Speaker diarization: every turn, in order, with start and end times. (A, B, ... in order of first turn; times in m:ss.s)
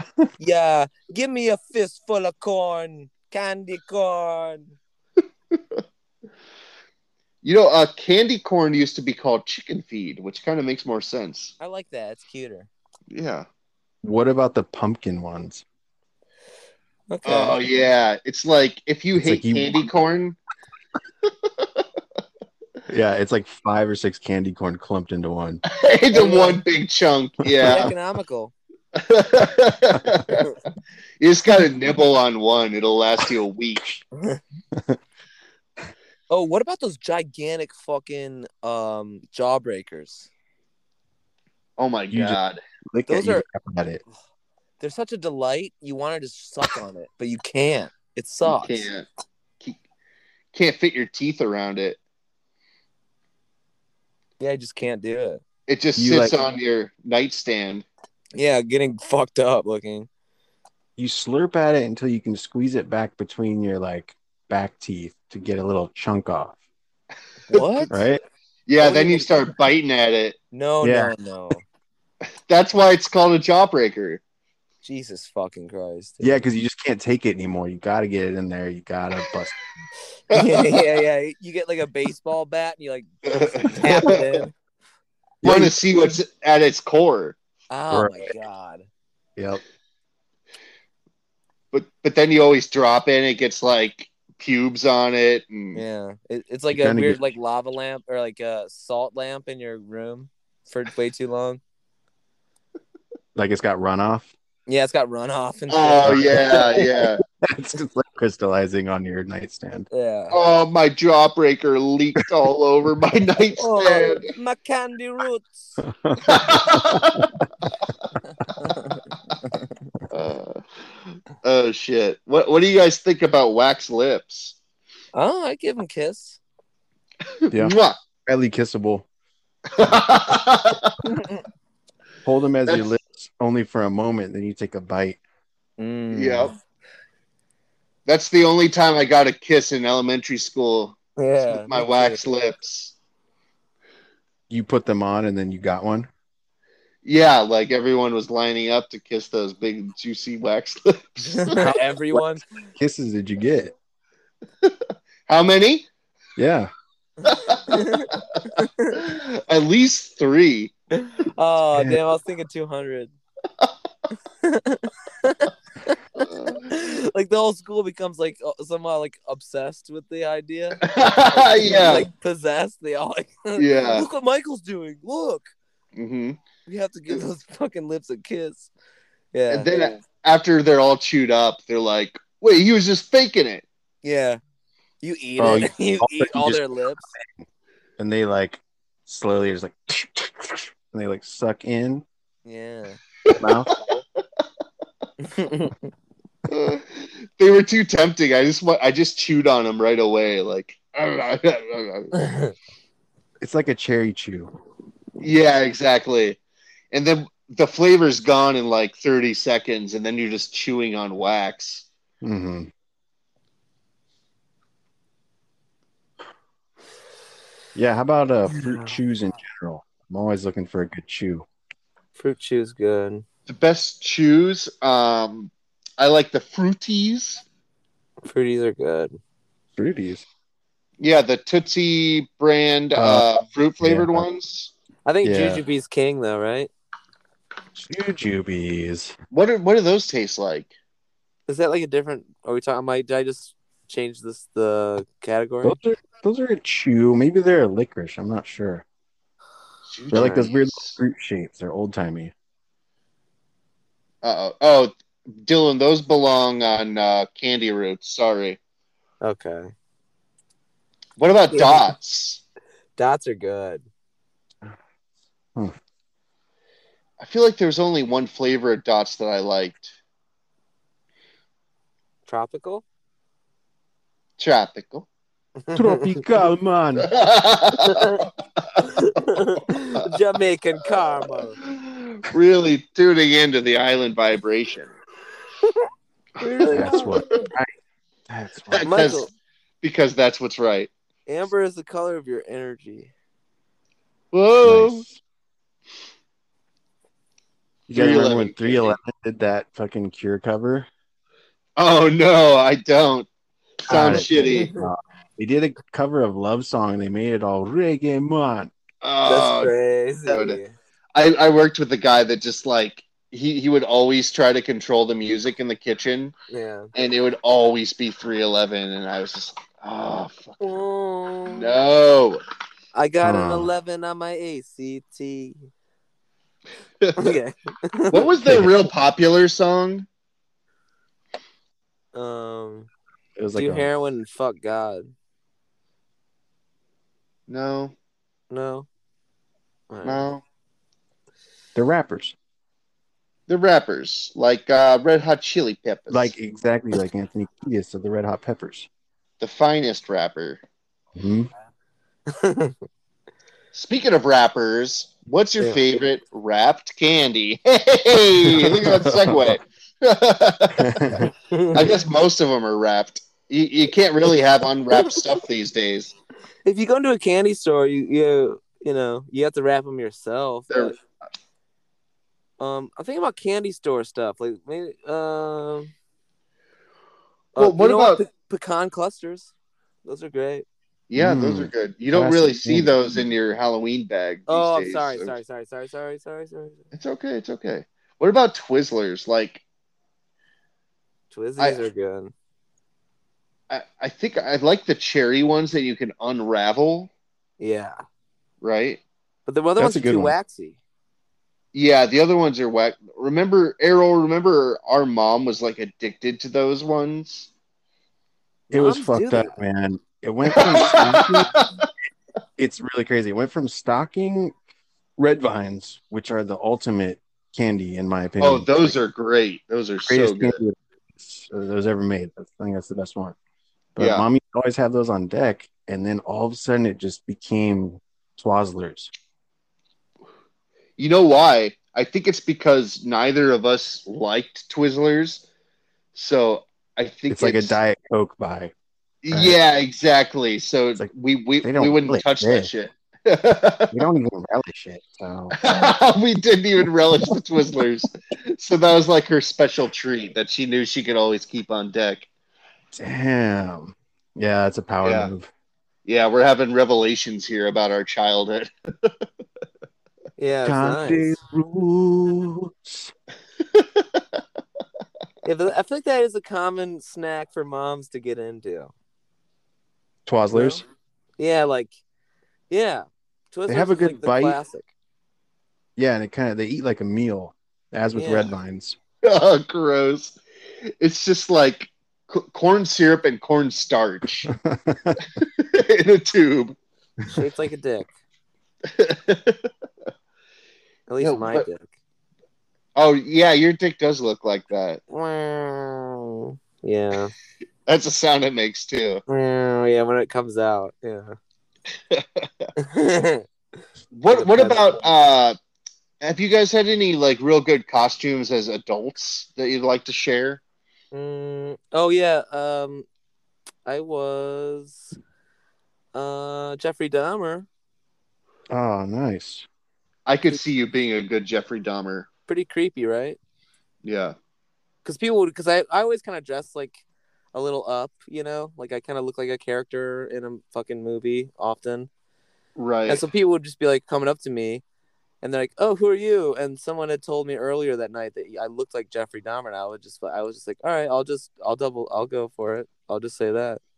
0:00.4-0:04.8 A
0:05.5-0:05.8 B
0:07.4-0:11.5 B
0:11.6-0:12.7 A
0:13.1-0:13.5 B
0:14.0-0:15.6 C
0:17.1-0:17.6 A
0:17.2-0:20.4 B
0:19.2-0:19.7 C
0:22.9-0:25.6 C
0:25.7-0:27.9 B
0:26.1-0:26.6 A
0:27.6-0:28.5 A
0:29.0-0:30.5 B
0:31.2-0:33.8 B
0:34.7-0:35.0 C
0:36.3-0:40.3 A
0:41.8-0:42.6 B
0:42.1-0:44.0 C
0:43.1-0:43.4 A
0:44.8-0:48.9 A
0:48.4-0:49.0 B
0:50.5-0:52.0 B
0:54.4-0:55.4 A
0:55.7-0:57.9 B
0:56.0-0:56.4 C
0:58.4-1:00.1 A
1:01.0-1:06.6 C
1:07.5-1:07.9 A
1:07.5-1:07.9 B
1:07.9-1:08.2 C
1:08.7-1:10.4 B
1:08.8-1:09.5 A
1:10.5-1:11.6 A
1:10.8-1:11.1 C
1:12.5-1:14.2 B
1:14.8-1:16.4 A
1:16.2-1:19.6 C
1:20.3-1:20.8 B
1:20.3-1:24.6 A
1:23.2-1:24.4 B
1:25.4-1:25.8 C
1:25.4-1:27.4 B
1:27.7-1:28.9 A
1:27.9-1:28.3 C
1:29.4-1:29.6 C
1:31.7-1:35.8 B
1:35.8-1:41.6 A
1:36.7-1:37.2 C
1:43.4-1:44.3 C
1:44.7-1:46.8 A
1:45.7-1:47.2 B
1:46.0-1:46.9 C
1:47.4-1:49.9 C
1:49.9-1:50.4 A
1:50.3-1:54.3 B
1:53.6-1:55.8 A
1:55.8-1:57.5 C
1:56.3-1:57.3 B
1:58.5-1:59.0 A
2:00.1-2:00.6 B
2:01.4-2:04.6 B
2:05.1-2:06.4 A
2:07.4-2:08.0 B
2:07.5-2:09.1 C
2:09.7-2:11.0 B
2:11.0-2:11.4 A
2:12.2-2:15.2 C
2:15.8-2:16.5 A
2:16.1-2:16.5 B
2:18.1-2:23.0 B
2:21.2-2:22.2 A
2:24.5-2:26.1 C
2:27.0-2:31.6 B
2:31.2-2:32.5 A
2:31.6-2:33.8 C
2:35.3-2:35.9 B
2:36.4-2:36.7 C
2:37.2-2:39.0 A
2:37.2-2:37.8 B
2:38.9-2:40.7 B
2:41.0-2:43.1 A
2:41.7-2:42.0 C
2:44.4-2:46.0 A
2:46.2-2:46.7 B
2:46.7-2:55.5 A
2:50.8-2:52.1 B
2:53.6-2:54.1 B
2:56.0-2:56.4 B
2:56.7-2:58.7 A
2:59.3-2:59.9 A
2:59.5-3:03.6 B
3:04.0-3:04.4 A
3:05.0-3:07.1 A
3:05.4-3:07.5 C
3:08.0-3:12.1 C
3:12.4-3:13.0 A
3:13.2-3:13.9 B
3:13.3-3:13.7 C
3:15.2-3:15.9 A
3:16.5-3:22.2 B
3:22.2-3:22.5 A
3:23.4-3:24.5 C
3:25.2-3:26.4 B
3:26.9-3:31.9 B
3:32.2-3:32.7 C
3:37.8-3:41.5 C
3:38.6-3:38.9 A
3:42.2-3:43.2 A
3:43.5-3:47.4 B
3:48.2-3:49.2 A
3:49.8-3:50.3 C
3:51.0-3:54.7 B
3:53.0-3:53.3 C
3:53.8-3:54.3 C
3:55.1-3:56.7 A
3:55.2-3:55.6 C
3:57.8-3:59.2 C
3:59.3-4:00.7 B
4:01.5-4:05.8 A
4:05.6-4:08.8 C
4:09.9-4:11.0 B
4:10.1-4:10.5 A
4:10.1-4:12.3 C
4:14.2-4:18.6 B
4:19.2-4:19.7 A
4:21.2-4:22.4 B
4:21.5-4:21.9 A
4:23.0-4:23.9 A
4:27.2-4:29.9 B
4:32.3-4:32.8 A
4:34.4-4:35.1 B
4:35.7-4:36.2 A
4:35.7-4:37.1 C
4:37.0-4:38.1 B
4:37.8-4:38.3 A
4:38.8-4:41.6 A
4:41.2-4:44.9 B
4:46.4-4:47.2 A
4:46.5-4:47.4 B
4:46.7-4:47.8 C
4:48.3-4:48.9 C
4:48.7-4:49.3 B
4:48.8-4:49.3 A
4:49.8-4:50.9 B
4:51.3-4:53.1 A
4:54.3-4:55.0 B
4:54.6-4:55.2 C
4:57.9-5:00.9 C
4:57.9-4:59.0 B
5:01.8-5:03.3 B
5:03.9-5:04.7 B
5:03.9-5:08.7 C
5:04.0-5:04.9 A
5:09.0-5:09.7 B
5:09.2-5:10.7 A
5:10.3-5:10.6 B
5:11.2-5:16.3 B
5:16.5-5:16.9 A
5:17.0-5:20.7 B
5:20.6-5:21.7 A
5:21.5-5:22.4 B
5:22.9-5:25.6 A
5:23.2-5:23.7 C
5:27.0-5:27.4 B
5:27.2-5:28.3 A
5:28.1-5:30.1 B
5:32.1-5:32.9 A
5:33.4-5:33.9 C
5:33.6-5:35.1 A
5:37.5-5:37.9 B
5:38.5-5:38.9 A
5:39.9-5:40.3 A
5:40.0-5:40.4 B
5:41.8-5:42.4 C
5:43.5-5:46.3 B
5:46.1-5:48.9 C
5:49.4-5:50.6 B
5:51.2-5:51.5 C
5:52.3-5:52.8 A
5:53.7-6:01.2 B
5:58.5-5:59.6 C
6:00.8-6:01.3 C
6:01.5-6:01.9 A
6:01.7-6:06.1 B
6:06.6-6:11.0 A
6:10.7-6:11.0 B
6:12.6-6:15.9 A
6:17.6-6:19.5 A
6:17.6-6:18.2 B
6:20.0-6:20.7 A
6:21.1-6:25.4 B
6:21.2-6:22.9 C
6:24.5-6:26.8 A
6:26.9-6:29.6 B
6:31.3-6:32.3 A
6:31.6-6:31.8 B
6:33.7-6:37.1 B
6:37.6-6:38.0 A
6:38.6-6:39.0 B
6:39.5-6:40.8 A
6:39.8-6:40.4 C
6:41.7-6:47.5 B
6:48.7-6:49.6 A
6:48.7-6:51.5 C
6:50.5-6:51.9 B
6:52.6-6:54.6 C
6:55.2-6:59.0 C
6:58.4-7:00.6 B
7:00.1-7:03.4 C
7:04.0-7:09.1 C
7:04.0-7:04.3 B
7:11.0-7:15.4 B
7:16.2-7:17.8 B
7:17.3-7:18.7 C
7:19.2-7:24.0 B
7:19.3-7:19.6 C
7:21.6-7:22.7 C
7:23.9-7:25.9 C
7:25.6-7:32.3 B
7:32.9-7:35.5 C
7:35.0-7:35.3 B
7:36.1-7:39.2 B
7:40.4-7:41.4 A
7:40.7-7:43.1 C
7:43.8-7:44.0 B
7:45.4-7:48.9 A
7:50.3-7:50.8 C
7:50.5-7:50.8 A
7:51.4-7:52.0 A
7:52.7-7:54.9 A
7:53.7-7:54.6 C
7:56.0-7:59.0 C
7:58.2-7:58.5 A
7:59.2-8:00.4 B
8:01.0-8:04.5 B
8:04.4-8:05.2 C
8:05.2-8:06.8 B
8:07.3-8:08.1 A
8:08.9-8:09.6 B
8:11.1-8:11.9 A
8:11.2-8:11.7 B
8:13.0-8:15.0 B
8:15.1-8:17.3 A
8:17.9-8:19.2 B
8:19.3-8:21.4 A
8:22.1-8:22.7 B
8:22.8-8:23.4 A
8:24.1-8:25.6 B
8:24.3-8:25.0 A
8:26.2-8:30.6 B
8:31.1-8:33.1 A
8:33.9-8:35.2 A
8:36.1-8:37.7 A
8:38.7-8:39.7 C
8:40.3-8:42.3 B
8:42.5-8:43.4 A
8:44.0-8:44.4 B
8:45.0-8:47.0 A
8:47.5-8:52.1 A
8:52.8-8:53.2 B
8:53.1-8:54.8 A
8:55.4-9:03.8 A